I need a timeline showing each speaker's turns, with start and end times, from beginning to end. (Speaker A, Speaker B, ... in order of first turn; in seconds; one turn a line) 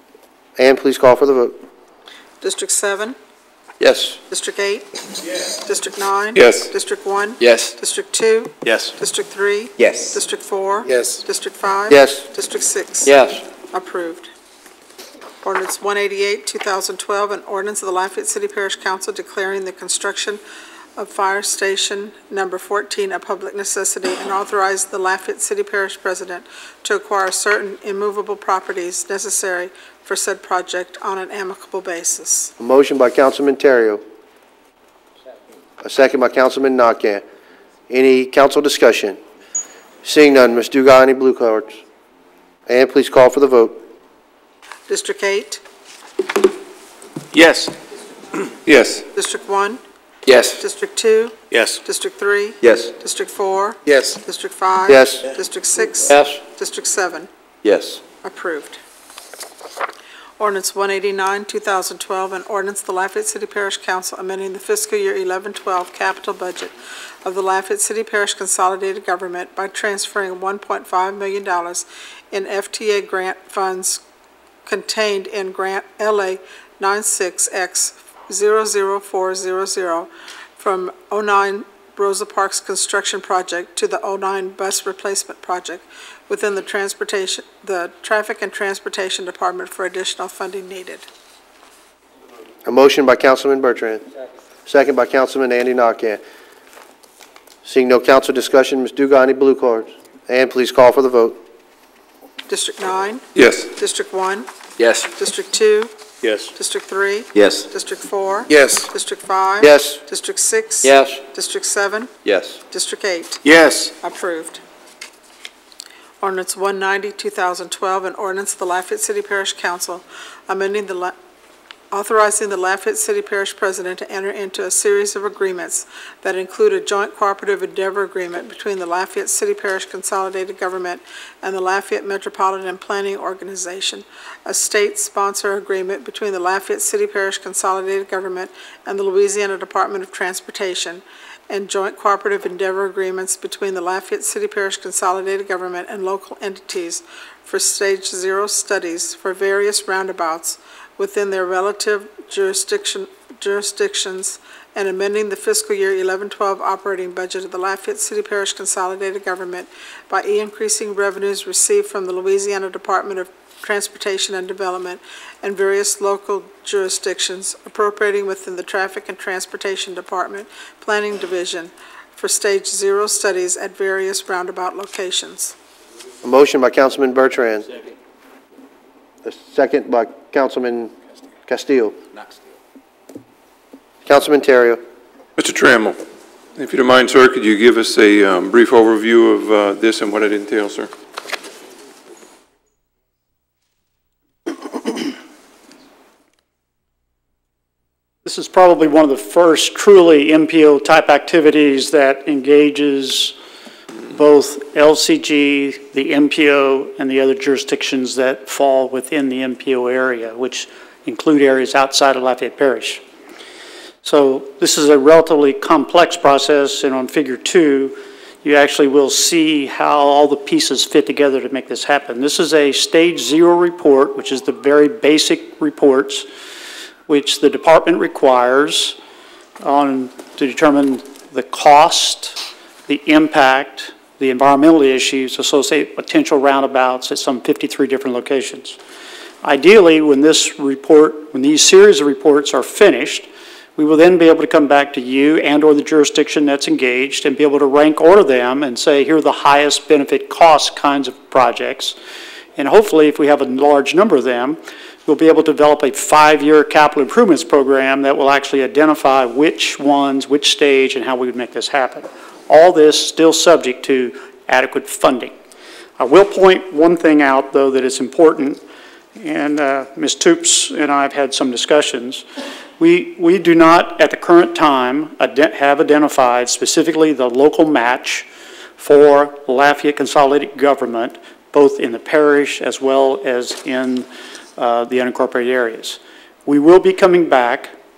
Speaker A: 0.6-1.5
Speaker B: 2.4-3.2
Speaker A: 3.8-4.2
Speaker B: 4.3-14.3
Speaker C: 6.3-6.7
Speaker D: 7.4-7.7
Speaker D: 8.7-8.9
Speaker D: 9.8-10.2
Speaker A: 11.9-12.2
Speaker D: 13.1-13.4
Speaker B: 15.4-20.4
Speaker B: 21.0-32.5
Speaker A: 32.6-34.0
Speaker A: 35.8-37.2
Speaker A: 37.9-39.2
Speaker A: 40.0-41.8
Speaker A: 42.7-43.8
Speaker B: 44.9-45.6
Speaker D: 47.3-47.7
Speaker C: 48.7-49.0
Speaker B: 49.1-49.8
Speaker D: 50.3-50.6
Speaker B: 50.5-57.3
Speaker D: 51.5-51.8
Speaker D: 52.6-52.9
Speaker A: 54.9-55.2
Speaker D: 57.6-58.0
Speaker B: 58.2-58.8
Speaker B: 60.4-66.7
Speaker B: 67.2-74.0
Speaker B: 74.7-91.0
Speaker A: 92.7-94.0
Speaker A: 94.7-96.2
Speaker A: 97.7-101.4
Speaker B: 102.5-103.2
Speaker C: 103.3-103.7
Speaker B: 103.8-104.5
Speaker D: 104.8-105.1
Speaker B: 105.1-105.9
Speaker D: 106.2-106.5
Speaker B: 106.5-112.1
Speaker D: 107.3-107.7
Speaker A: 109.6-110.0
Speaker D: 110.8-111.2
Speaker D: 112.2-112.6
Speaker B: 112.7-113.4
Speaker D: 113.5-113.9
Speaker B: 114.0-114.6
Speaker B: 116.2-121.2
Speaker B: 121.9-175.5
Speaker A: 176.2-177.7
Speaker A: 179.2-180.9
Speaker A: 181.5-181.9
Speaker A: 184.1-184.8
Speaker C: 185.4-186.0
Speaker C: 186.6-190.9
Speaker E: 198.2-203.3
Speaker E: 204.1-213.0
Speaker E: 214.0-226.3
Speaker E: 227.1-229.0
Speaker E: 229.6-238.8
Speaker E: 239.4-252.0
Speaker E: 252.6-265.3
Speaker E: 266.0-268.6
Speaker E: 269.2-272.2
Speaker E: 272.8-278.3
Speaker E: 278.8-287.7